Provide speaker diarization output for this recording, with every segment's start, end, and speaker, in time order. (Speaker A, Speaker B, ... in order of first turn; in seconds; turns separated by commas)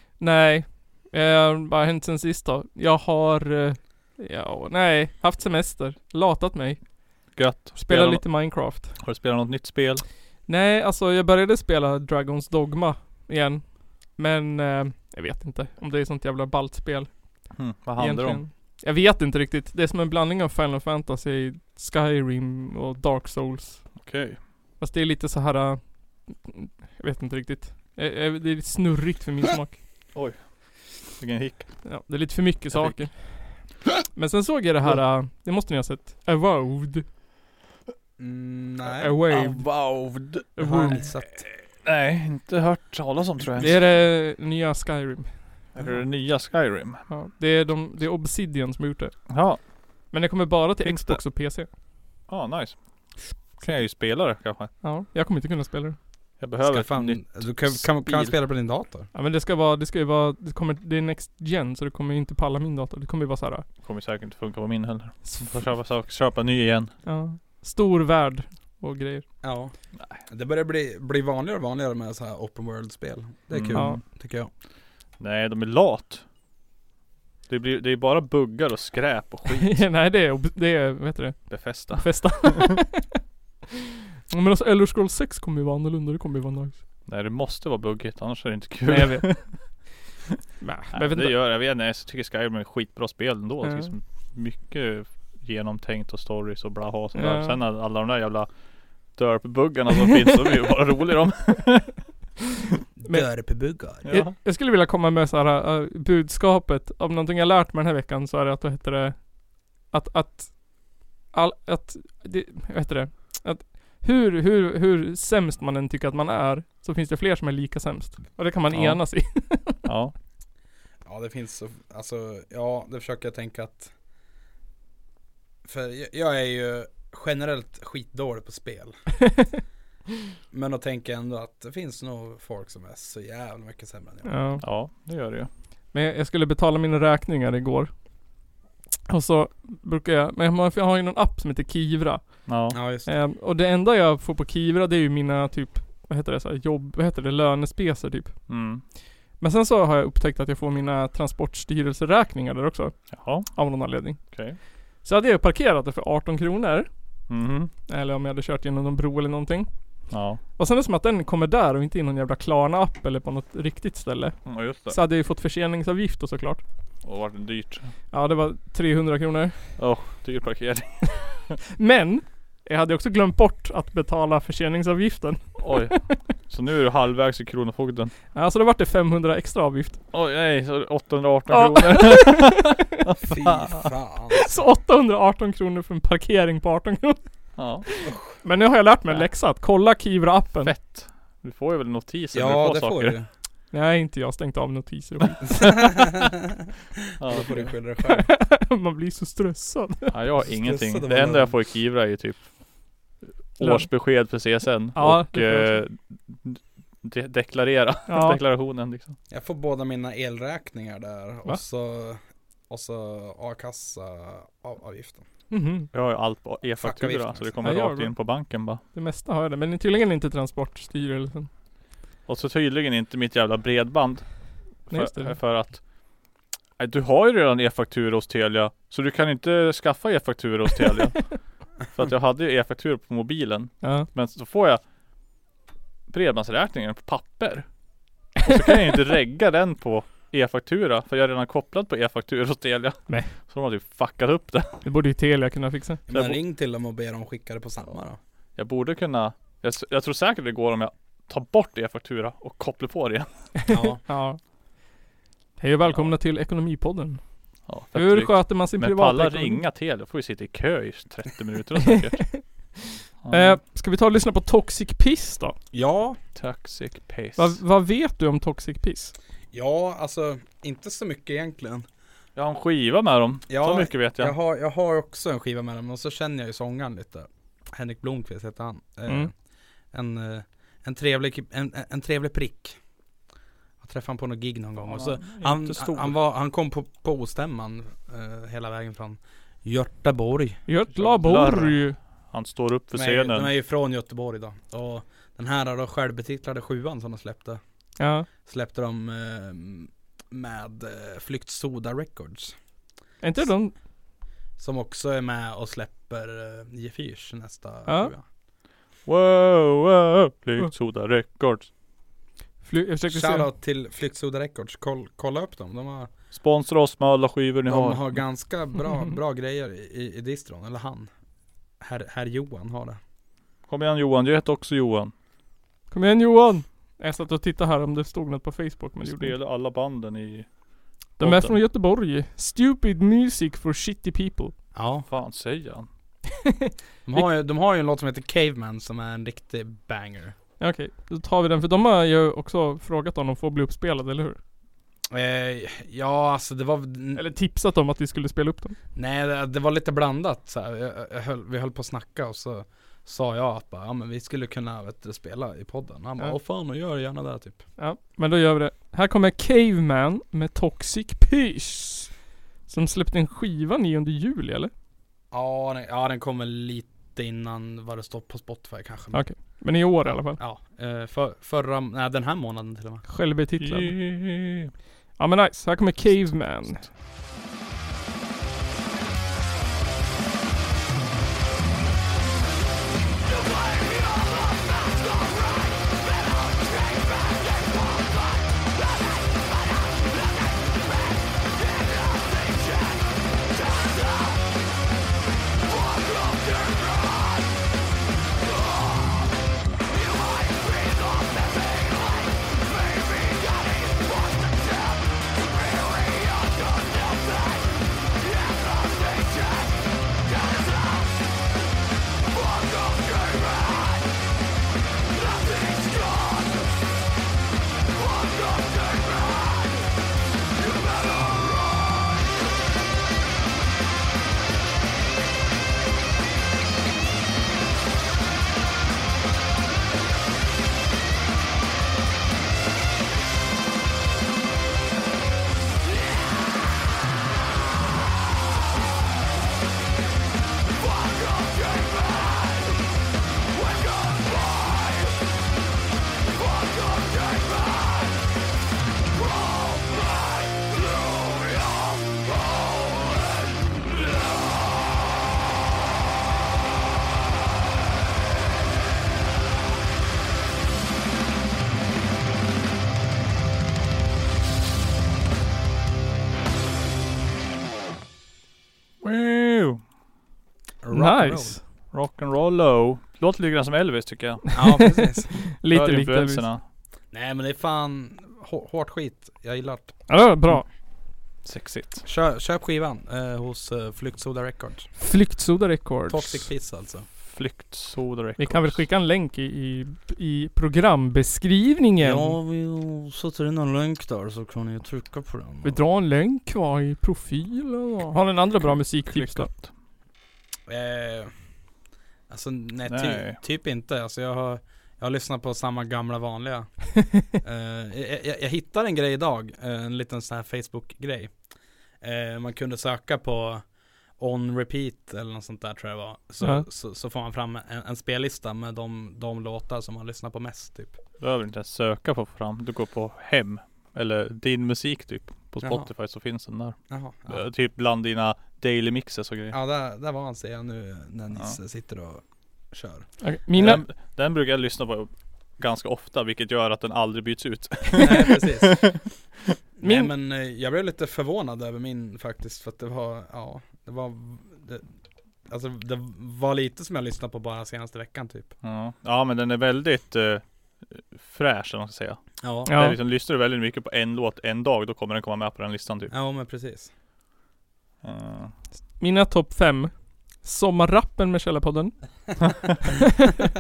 Speaker A: 0.2-8.9, Speaker B: 7.3-10.0, Speaker A: 10.5-23.8, Speaker B: 17.6-18.4, Speaker B: 23.9-24.4, Speaker A: 24.8-29.8, Speaker B: 30.1-31.9, Speaker A: 31.9-33.6, Speaker B: 32.7-33.0, Speaker A: 34.1-37.1, Speaker C: 38.2-39.2, Speaker A: 39.0-39.7, Speaker B: 39.3-40.5, Speaker A: 40.6-41.0, Speaker C: 40.6-41.5, Speaker B: 41.8-43.8, Speaker A: 43.6-45.3, Speaker B: 45.8-47.0, Speaker A: 47.1-49.4, Speaker B: 49.3-49.6, Speaker A: 50.1-51.7, Speaker B: 50.8-51.2, Speaker B: 52.3-52.8, Speaker B: 53.5-54.7, Speaker A: 54.8-56.0, Speaker B: 56.4-58.3, Speaker C: 56.6-59.1, Speaker A: 59.1-63.7, Speaker B: 63.8-66.9, Speaker A: 65.2-65.5, Speaker A: 67.0-69.2, Speaker C: 69.4-74.5, Speaker B: 73.5-74.0, Speaker A: 73.7-74.0, Speaker B: 75.2-76.2, Speaker B: 77.5-79.8, Speaker A: 79.5-83.1, Speaker B: 81.5-82.7, Speaker A: 84.3-86.8, Speaker B: 87.1-89.7, Speaker A: 88.9-89.3, Speaker A: 90.6-91.3, Speaker B: 90.9-98.5, Speaker A: 93.6-93.9, Speaker A: 97.1-97.6, Speaker B: 99.1-102.0, Speaker C: 103.0-104.1, Speaker B: 104.0-104.3, Speaker A: 104.1-119.8, Speaker B: 118.7-119.0, Speaker B: 119.8-120.1, Speaker C: 121.0-123.9, Speaker C: 125.6-129.0, Speaker C: 130.5-134.3, Speaker A: 134.2-134.6, Speaker B: 134.6-135.5, Speaker A: 135.9-137.9, Speaker A: 139.1-148.4, Speaker B: 142.5-142.8, Speaker C: 142.7-143.1, Speaker B: 148.5-148.8, Speaker A: 149.4-154.4, Speaker B: 153.1-153.6, Speaker B: 154.2-154.6, Speaker A: 155.0-156.9, Speaker B: 157.3-157.7, Speaker A: 157.9-159.7, Speaker B: 160.1-160.4, Speaker A: 160.6-166.6, Speaker B: 164.5-165.0, Speaker B: 167.0-167.9, Speaker A: 168.1-169.7, Speaker B: 169.8-171.5, Speaker A: 171.8-176.2, Speaker B: 175.6-178.1, Speaker A: 178.3-180.0, Speaker B: 180.1-183.9, Speaker A: 181.5-182.8, Speaker C: 183.2-184.6, Speaker A: 184.3-187.2, Speaker B: 187.6-187.8, Speaker A: 187.9-190.7, Speaker B: 190.6-193.2, Speaker C: 192.3-193.3, Speaker A: 193.7-195.7, Speaker C: 195.6-196.4, Speaker B: 197.2-197.7, Speaker C: 197.2-198.3, Speaker A: 198.0-200.1, Speaker B: 200.1-202.5, Speaker C: 200.5-201.5, Speaker B: 203.6-209.2, Speaker A: 203.6-203.9, Speaker A: 204.9-205.8, Speaker A: 208.1-208.4, Speaker C: 209.3-215.2, Speaker A: 215.5-215.9, Speaker B: 215.9-218.8, Speaker C: 216.8-217.5, Speaker A: 217.6-218.2, Speaker A: 218.9-221.5, Speaker B: 222.3-224.3, Speaker B: 224.9-225.8, Speaker A: 224.9-225.3, Speaker B: 226.8-234.8, Speaker A: 233.8-234.1, Speaker B: 236.1-237.7, Speaker B: 238.4-244.8, Speaker A: 244.8-246.0, Speaker C: 246.1-248.2, Speaker B: 248.6-253.3, Speaker A: 253.7-254.4, Speaker C: 253.7-254.0, Speaker A: 255.6-257.2, Speaker B: 255.9-256.1, Speaker B: 257.7-262.4, Speaker A: 257.9-259.6, Speaker B: 263.2-263.6, Speaker A: 263.3-265.6, Speaker C: 265.7-266.2, Speaker B: 266.4-267.6, Speaker A: 267.4-269.1, Speaker C: 269.5-271.9, Speaker B: 272.4-274.4, Speaker C: 273.5-279.3, Speaker C: 279.9-282.8, Speaker C: 283.8-290.6, Speaker B: 284.9-286.1, Speaker A: 290.7-292.0, Speaker B: 290.9-293.5, Speaker C: 292.9-297.6, Speaker A: 298.0-298.3, Speaker C: 298.4-302.5, Speaker A: 303.2-303.7, Speaker C: 304.6-308.2, Speaker A: 307.9-308.1, Speaker B: 309.1-311.7, Speaker A: 312.6-313.5, Speaker C: 313.1-316.1, Speaker B: 316.3-318.2, Speaker C: 317.7-321.1, Speaker C: 321.8-323.0, Speaker B: 323.7-325.1, Speaker A: 325.9-329.4, Speaker B: 329.0-330.5, Speaker B: 331.2-331.6, Speaker A: 331.2-334.5, Speaker C: 334.7-335.1, Speaker B: 335.1-335.9, Speaker C: 337.1-340.4, Speaker A: 340.6-344.4, Speaker C: 345.1-347.2, Speaker A: 347.1-348.8, Speaker C: 349.0-357.6, Speaker A: 357.8-362.1, Speaker A: 362.7-364.7, Speaker C: 365.3-369.3, Speaker A: 369.1-370.4, Speaker C: 370.4-373.0, Speaker A: 373.1-374.0, Speaker B: 373.6-374.7, Speaker A: 375.2-376.9, Speaker B: 469.0-469.8, Speaker C: 470.8-471.6, Speaker A: 470.9-471.6, Speaker B: 471.9-474.8, Speaker C: 474.5-475.4, Speaker A: 474.6-476.5, Speaker B: 475.7-476.6, Speaker C: 477.1-480.0, Speaker A: 480.1-480.6, Speaker B: 481.4-482.0, Speaker C: 482.1-484.9, Speaker A: 485.0-486.5, Speaker C: 486.1-487.1, Speaker B: 487.2-488.8, Speaker A: 488.4-492.4, Speaker C: 492.0-495.8, Speaker A: 495.6-499.5, Speaker B: 499.1-499.7, Speaker C: 500.7-501.3, Speaker C: 502.3-511.3, Speaker B: 502.9-503.4, Speaker C: 512.0-513.6, Speaker C: 514.2-521.0, Speaker B: 521.2-529.6, Speaker C: 525.6-525.9, Speaker C: 526.9-527.4, Speaker C: 529.5-533.1, Speaker A: 533.2-533.8, Speaker B: 533.6-539.0, Speaker C: 538.0-539.0, Speaker C: 539.8-544.9, Speaker A: 539.8-540.1, Speaker C: 545.5-548.5, Speaker B: 548.6-556.1, Speaker C: 552.4-552.7, Speaker A: 552.7-553.0, Speaker C: 556.1-556.9, Speaker B: 558.0-558.5, Speaker A: 559.0-562.0, Speaker A: 563.0-563.3